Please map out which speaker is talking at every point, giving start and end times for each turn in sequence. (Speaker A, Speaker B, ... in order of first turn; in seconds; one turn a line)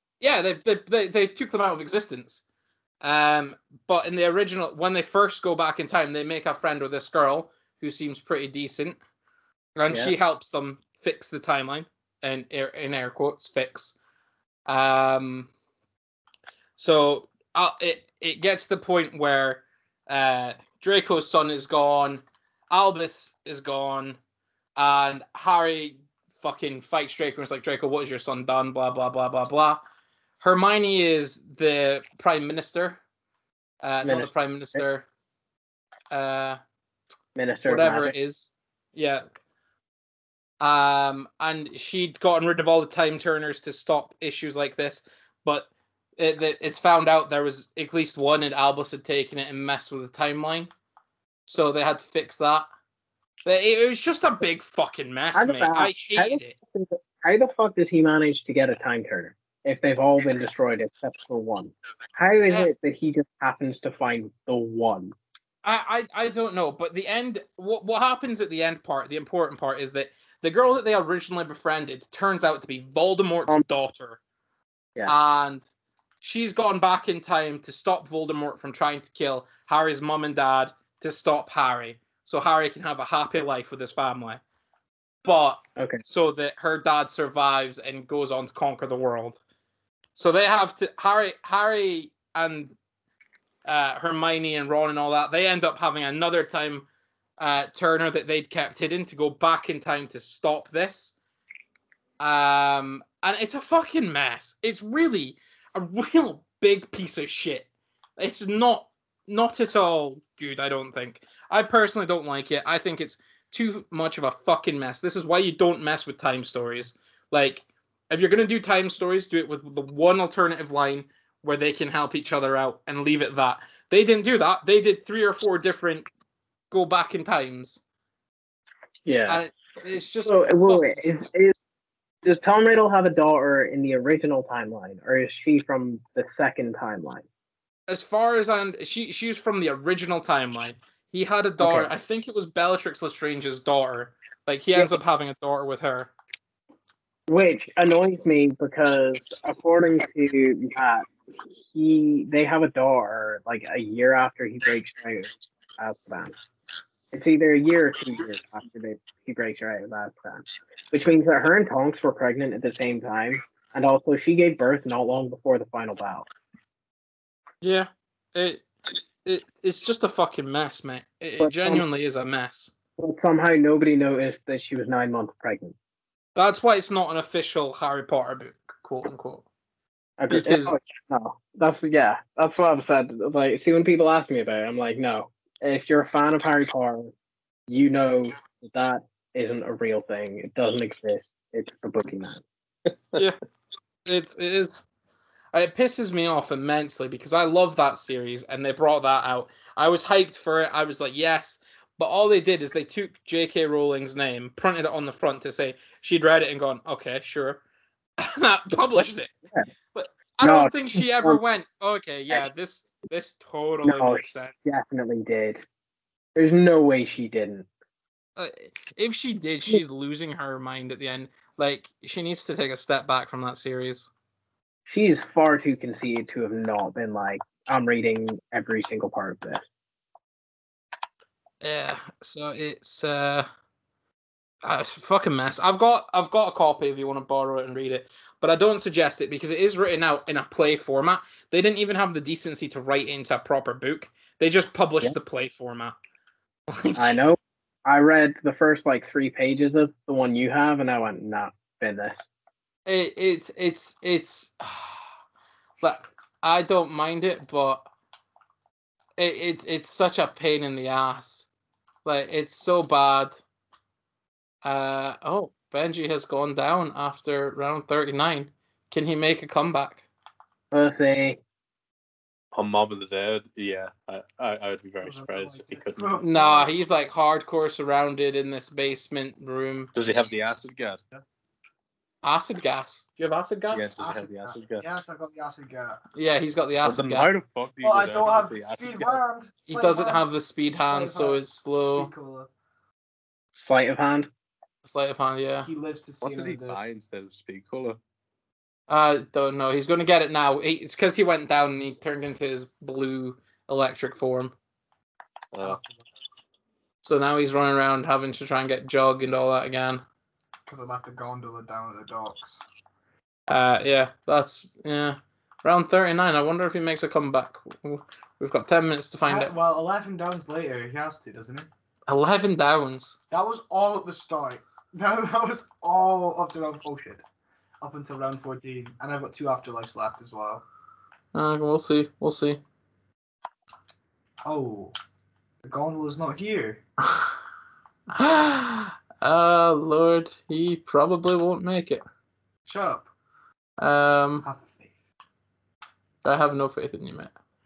Speaker A: 0.2-2.4
Speaker A: 3.0-9.0
Speaker A: 9.8-13.9
Speaker A: 14.7-15.5
Speaker A: 16.8-24.2
Speaker A: 24.8-29.8
Speaker A: 30.4-33.0
Speaker A: 33.8-35.0
Speaker B: 34.0-34.8
Speaker A: 36.1-36.6
Speaker B: 37.4-38.1
Speaker A: 37.6-39.2
Speaker A: 40.6-50.7
Speaker A: 51.5-52.7
Speaker A: 53.4-56.5
Speaker B: 55.3-65.1
Speaker A: 65.6-74.2
Speaker A: 75.0-75.7
Speaker A: 76.2-84.4
Speaker A: 85.2-89.4
Speaker B: 85.8-86.0
Speaker A: 90.1-92.8
Speaker A: 93.7-96.9
Speaker A: 97.4-101.1
Speaker A: 102.2-126.1
Speaker A: 126.7-127.8
Speaker B: 129.0-129.4
Speaker A: 129.3-131.2
Speaker B: 130.2-131.5
Speaker B: 132.2-137.2
Speaker A: 137.9-146.1
Speaker B: 141.6-141.9
Speaker B: 147.3-151.1
Speaker B: 151.7-156.3
Speaker B: 157.1-166.2
Speaker A: 167.6-168.7
Speaker A: 169.2-172.7
Speaker B: 171.4-171.8
Speaker B: 173.0-175.7
Speaker A: 176.3-179.4
Speaker B: 180.2-187.1
Speaker A: 180.3-180.8
Speaker B: 187.7-192.4
Speaker A: 194.1-194.8
Speaker A: 195.5-207.6
Speaker A: 208.2-209.3
Speaker B: 209.0-209.7
Speaker A: 209.9-214.6
Speaker B: 210.4-211.4
Speaker B: 213.8-215.6
Speaker B: 216.3-217.7
Speaker A: 218.3-224.1
Speaker B: 224.9-229.6
Speaker A: 231.6-233.5
Speaker A: 234.6-245.9
Speaker A: 246.8-247.2
Speaker B: 246.9-252.3
Speaker A: 252.8-255.0
Speaker A: 255.8-257.9
Speaker A: 259.2-261.5
Speaker A: 262.0-263.4
Speaker A: 264.6-270.1
Speaker B: 270.7-271.4
Speaker C: 272.5-276.2
Speaker D: 275.0-276.7
Speaker A: 276.2-279.9
Speaker C: 279.9-281.0
Speaker A: 282.2-283.9
Speaker C: 283.7-284.9
Speaker D: 284.0-286.0
Speaker A: 286.1-287.3
Speaker C: 286.8-289.2
Speaker D: 287.8-290.2
Speaker A: 289.7-292.1
Speaker D: 290.9-292.5
Speaker B: 293.5-294.3
Speaker A: 294.8-295.7
Speaker D: 295.6-296.8
Speaker C: 296.2-298.0
Speaker A: 298.9-304.5
Speaker C: 305.5-305.8
Speaker D: 305.6-306.0
Speaker A: 307.0-310.0
Speaker D: 310.6-312.6
Speaker A: 313.5-319.5
Speaker D: 319.3-321.7
Speaker A: 322.1-323.2
Speaker D: 323.3-327.2
Speaker D: 327.8-330.6
Speaker A: 331.3-332.6
Speaker D: 334.4-334.9
Speaker D: 335.6-336.8
Speaker A: 338.1-342.0
Speaker D: 342.6-343.1
Speaker A: 343.8-344.4
Speaker D: 344.4-344.9
Speaker A: 346.2-347.3